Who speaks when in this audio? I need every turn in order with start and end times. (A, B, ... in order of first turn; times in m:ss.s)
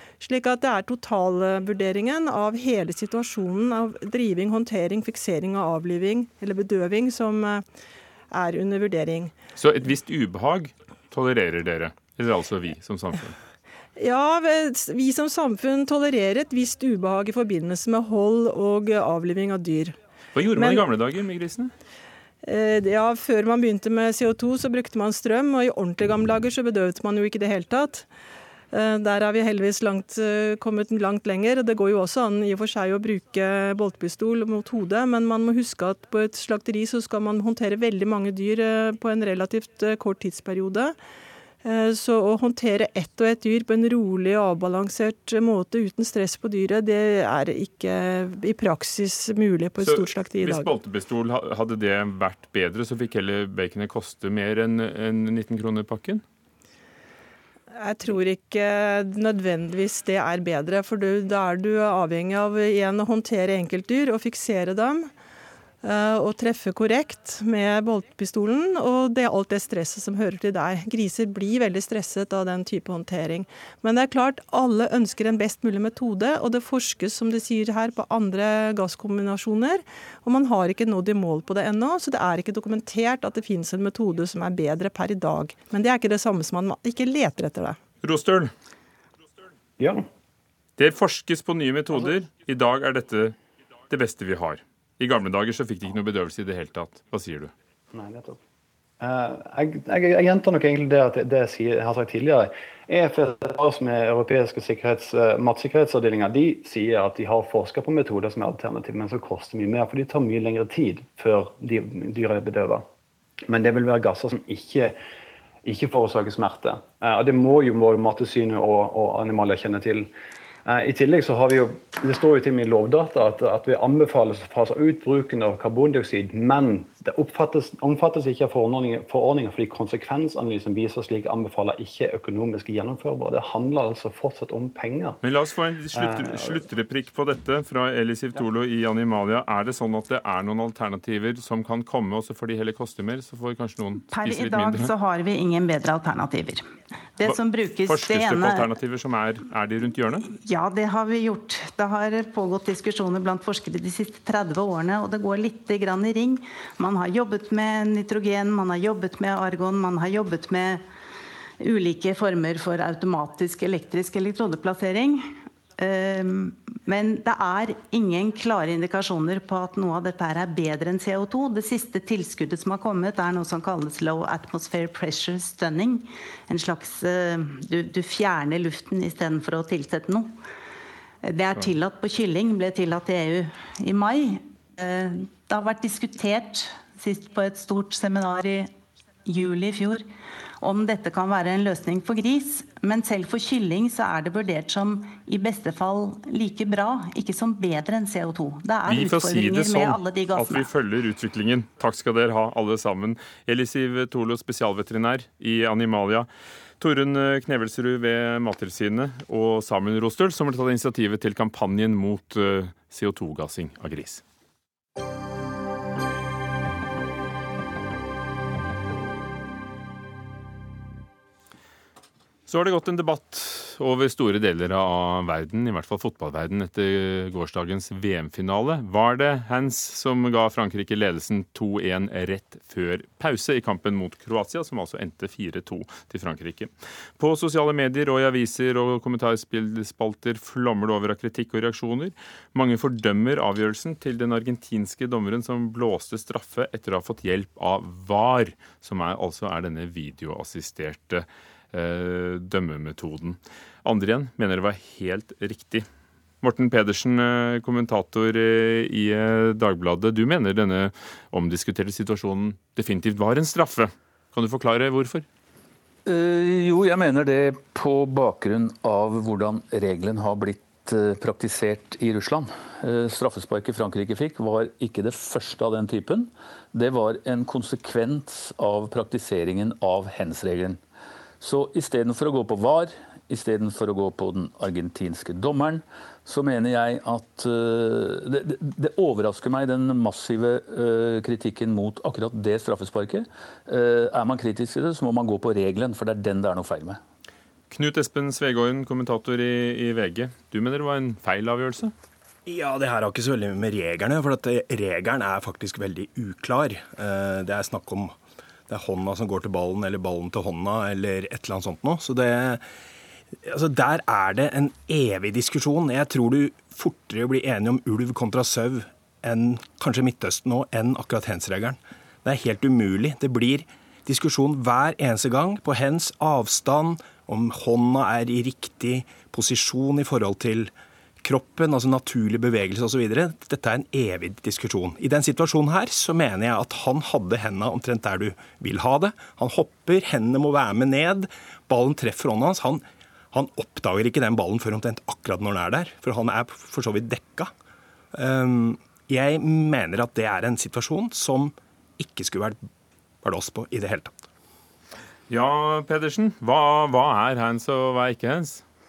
0:00.2-0:07.7 A
0:08.3-0:09.3 A
0:09.6-0:13.4 B
0:14.0-0:20.0 A
0:20.3-0:21.7 B
0:20.5-0:20.8 A
0:22.4-0:28.1 A
0:28.7-0:41.0 A
0:41.6-0:50.7 A
0:49.8-0:56.2 B
0:57.7-1:05.1 A
1:05.8-1:27.8 A
1:28.0-1:28.5 B
1:29.8-1:30.0 C
1:30.8-1:33.4 B
1:33.9-1:37.5 B
1:37.9-1:38.4 C
1:39.0-1:52.8 C
1:53.5-1:55.0 C
1:55.6-2:00.1 C
2:00.6-2:15.2 C
2:15.2-2:24.9 B
2:15.9-2:16.6 C
2:24.1-2:26.7 D
2:27.2-2:28.7 D
2:27.2-2:30.3 B
2:30.3-2:40.8 D
2:41.6-3:00.4 D
3:01.2-3:08.7 D
3:09.2-3:10.0 D
3:10.6-3:20.7 D
3:18.9-3:26.3 B
3:26.8-3:34.2 B
3:42.5-4:15.9 B
4:16.4-4:25.2 B
4:26.0-4:40.8 E
4:41.4-4:57.0 E
4:57.7-5:01.9 B
5:02.4-5:08.2 F
5:08.7-5:12.6 F
5:13.4-5:47.5 F
5:48.1-5:52.6 F
5:53.2-5:54.1 F
5:55.3-5:58.6 B